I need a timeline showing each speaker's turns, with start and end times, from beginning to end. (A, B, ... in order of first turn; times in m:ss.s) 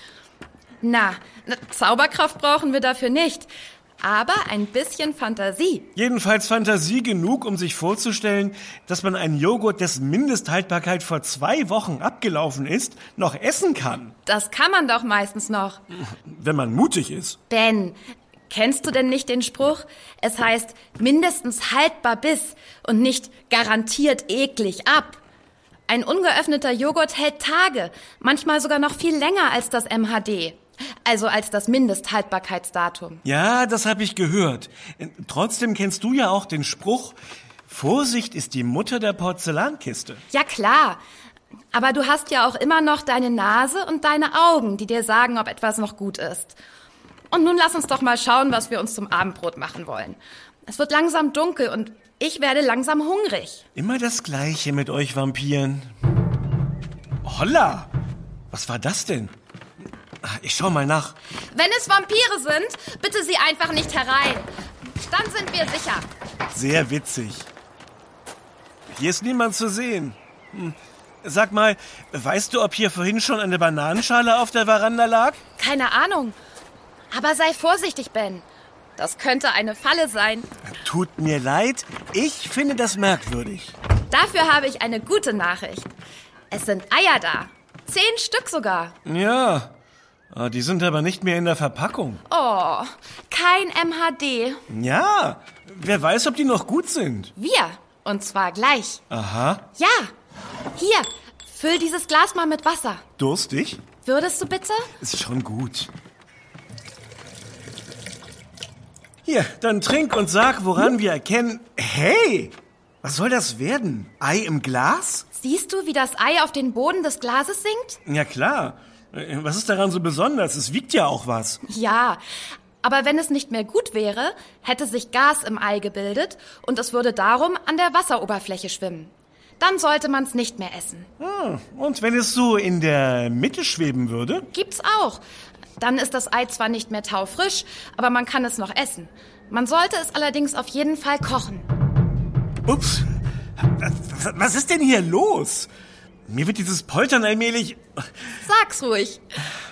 0:00.8-0:03.5 A
0:04.0-0:05.9 A
0:05.9-0:14.1 B
0:14.2-0:15.8 A
0:16.2-0:17.4 B
0:17.5-0:18.0 A
0:18.5-0:25.2 A
0:25.9-0:33.2 A
0:33.2-0:40.2 B
0:40.3-0:41.0 A
0:41.7-0:46.5 A
0:47.3-0:53.6 A
0:53.7-0:55.9 B
0:57.2-0:57.9 B
0:58.5-0:59.3 B
1:00.2-1:01.1 B
1:01.5-1:04.5 A
1:05.0-1:06.0 A
1:06.5-1:07.5 B
1:08.9-1:15.4 B
1:15.6-1:16.4 A
1:17.1-1:18.4 A
1:19.0-1:20.5 A
1:20.8-1:23.7 B
1:24.1-1:25.9 A
1:26.5-1:28.9 A
1:29.0-1:29.7 B
1:30.3-1:32.2 B
1:32.3-1:34.6 A
1:34.7-1:37.3 B
1:37.4-1:39.0 A
1:39.1-1:39.6 B
1:39.8-1:40.1 A
1:40.7-1:43.0 A
1:43.2-1:43.8 B
1:44.0-1:44.9 A
1:45.0-1:45.9 B
1:49.2-1:55.2 B
1:55.3-1:58.0 A
1:58.0-2:01.6 B
2:01.7-2:02.2 A
2:02.8-2:11.1 A
2:11.2-2:14.5 B
2:14.5-2:15.2 A
2:15.8-2:21.7 A
2:22.6-2:23.0 B
2:23.6-2:25.7 B
2:26.3-2:27.8 B
2:28.4-2:29.2 A